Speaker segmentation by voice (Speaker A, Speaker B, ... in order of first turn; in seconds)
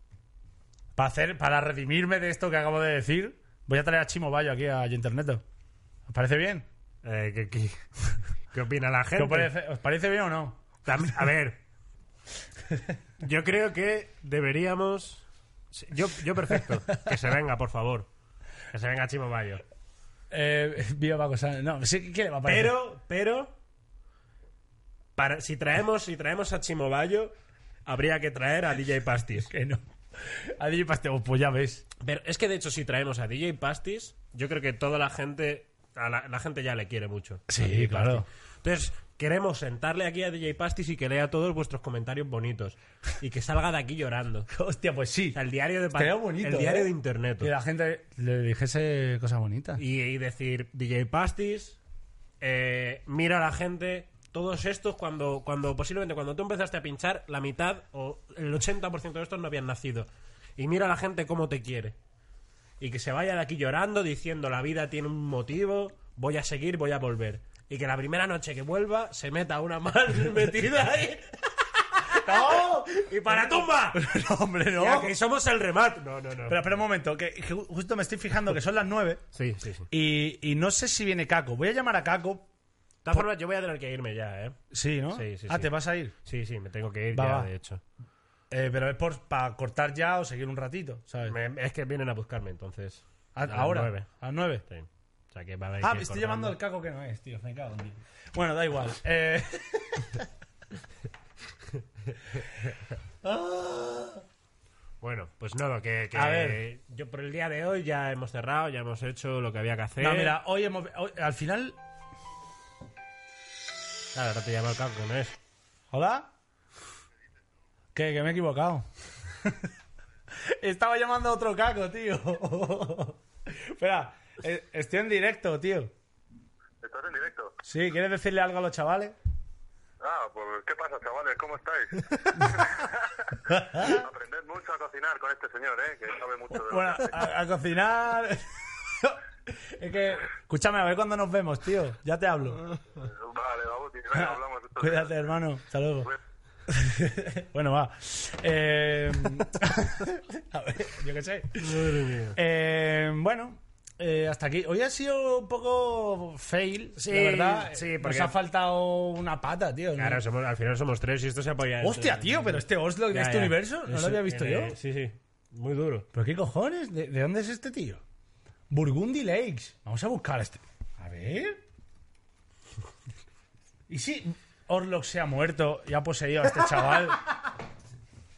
Speaker A: 1.0-5.4, 6.1-6.7, 9.2-10.7, 20.3-22.8, 29.5-31.9, 37.5-38.3, 44.5-45.4, 45.9-49.8, 72.2-75.1, 76.5-79.2, 79.9-82.5, 84.7-86.1, 87.1-87.5, 88.5-91.4, 93.3-94.7, 95.8-100.3, 103.2-104.2, 106.1-106.6, 110.0-111.8, 115.9-116.3, 118.0-118.9, 120.5-125.9, 127.6-129.2, 132.3-132.7, 133.5-134.0, 136.5-142.7, 144.1-146.1, 146.7-160.2, 161.8-164.8, 166.1-168.0, 168.7-171.6, 173.9-177.2
Speaker B: 7.0-7.8, 8.5-9.5, 10.8-11.6, 13.2-18.1, 18.7-19.6, 22.4-23.5, 25.2-29.5, 32.0-44.5, 45.3-47.5, 49.8-51.8, 52.4-62.0, 62.8-74.1, 74.7-76.8, 79.3-79.9, 83.0-84.6, 85.1-87.8, 91.2-94.1, 94.7-96.6, 105.0-110.4, 114.1-115.4, 151.6-152.4, 157.0-158.4, 160.0-166.1
Speaker C: 126.8-127.5, 130.0-133.1, 133.9-137.2, 143.0-145.2